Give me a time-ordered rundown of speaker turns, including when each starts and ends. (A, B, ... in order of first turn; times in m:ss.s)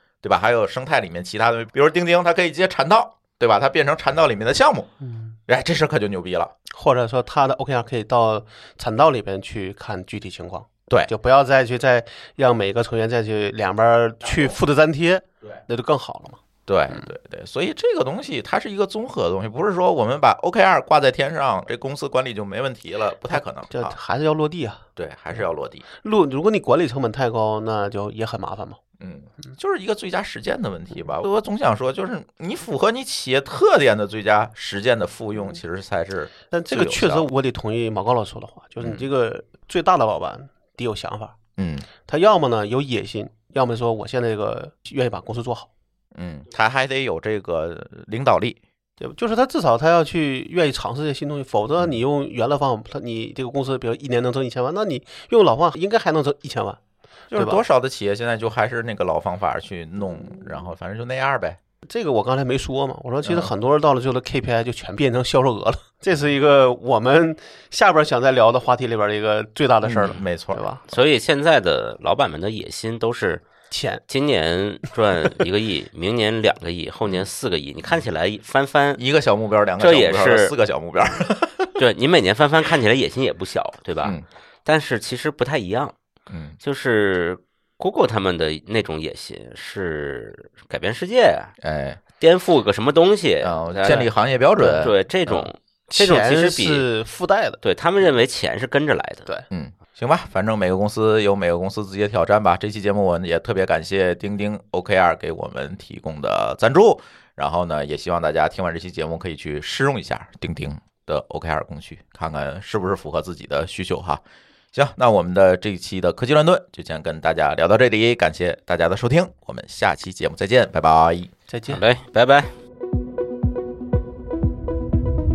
0:00.2-0:04.9 A
0:05.0-0:05.4 B
0:05.5-0:06.5 A
0:06.7-0:17.1 B
0:16.7-0:24.0 A
0:23.3-0:24.8 B
0:25.0-0:25.8 A
0:26.0-0:28.8 B
0:29.0-0:37.2 A
0:36.5-0:41.4 B
0:41.6-0:41.9 A
0:42.0-0:45.7 B
0:46.1-0:48.6 A
0:49.0-0:56.8 B
0:57.3-1:01.6 A
0:57.3-0:57.6 B
1:01.9-1:10.8 B
1:03.2-1:03.5 A
1:09.8-1:10.6 A
1:10.9-1:13.4 C
1:13.7-1:14.0 B
1:14.1-1:19.0 C
1:19.0-1:21.8 A
1:19.8-1:20.5 C
1:21.8-1:26.0 C
1:26.3-1:26.6 A
1:26.6-1:31.5 C
1:31.6-1:32.0 A
1:32.2-1:36.9 C
1:33.4-1:35.5 A
1:35.9-1:37.6 B
1:37.6-1:39.3 C
1:39.5-1:54.2 A
1:54.7-2:01.3 A
2:01.5-2:01.8 B
2:01.7-2:02.5 C